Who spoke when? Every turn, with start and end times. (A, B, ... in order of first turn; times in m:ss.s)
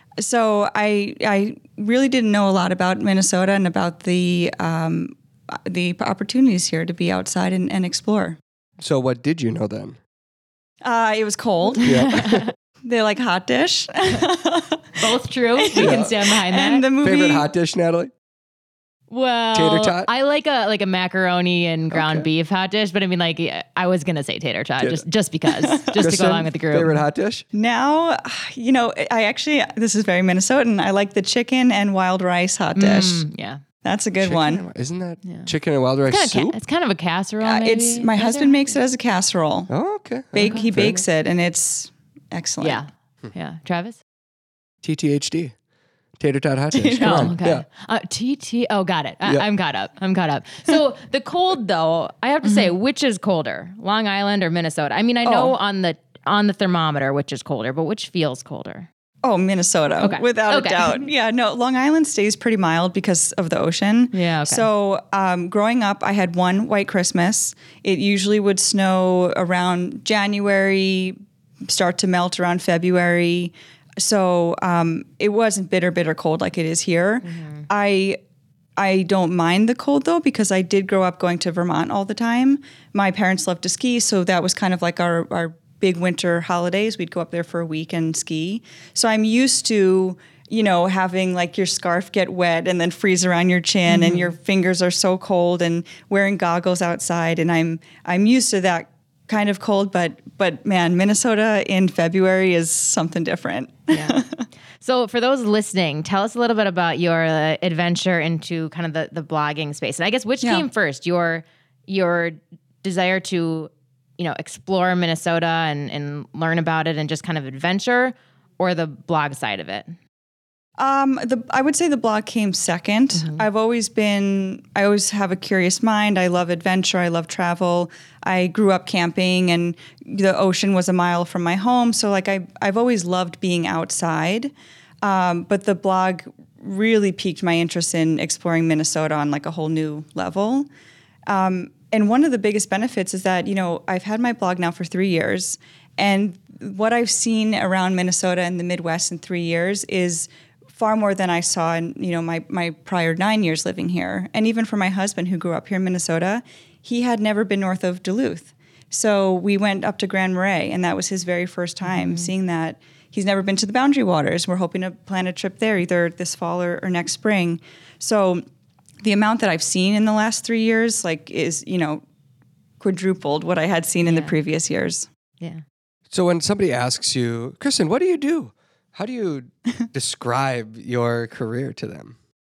0:00.2-0:08.4 A
0:08.8-0:10.0 B
0:10.8-0:12.1 A
0:11.8-0:12.5 C
0:11.8-0:12.5 B
0:12.8-0:17.5 A
0:15.0-0:16.8 C
0:15.8-0:16.1 B
0:17.0-0:18.1 B
0:19.1-0:27.0 C
0:19.5-0:20.1 B
0:21.9-0:22.3 B
0:25.5-0:26.0 A
0:26.0-0:27.4 B
0:27.5-0:33.2 A
0:32.8-0:33.6 C
0:33.8-0:34.6 A
0:34.2-0:36.6 B
0:35.2-0:35.5 C
0:36.1-0:38.7 C
0:37.4-0:39.7 A
0:39.7-0:41.0 B
0:40.3-0:42.8 A
0:40.4-0:40.8 C
0:42.6-0:44.0 C
0:44.8-0:45.5 B
0:46.2-0:47.6 B
0:46.7-0:47.3 A
0:47.0-0:58.9 C
0:52.4-0:52.7 A
0:55.2-0:55.5 A
0:59.2-1:18.2 A
1:00.0-1:01.0 C
1:04.1-1:04.7 C
1:17.2-1:17.7 C
1:18.8-1:44.4 A
1:33.9-1:34.3 C
1:43.9-1:44.2 C
1:44.8-1:59.9 C
1:50.4-1:50.7 A
2:00.8-2:20.7 A
2:03.2-2:03.4 C
2:21.3-2:48.4 A
2:41.9-2:42.3 C
2:49.0-2:52.0 A
2:52.8-2:55.1 A
2:54.0-2:54.4 C
2:56.1-3:02.1 B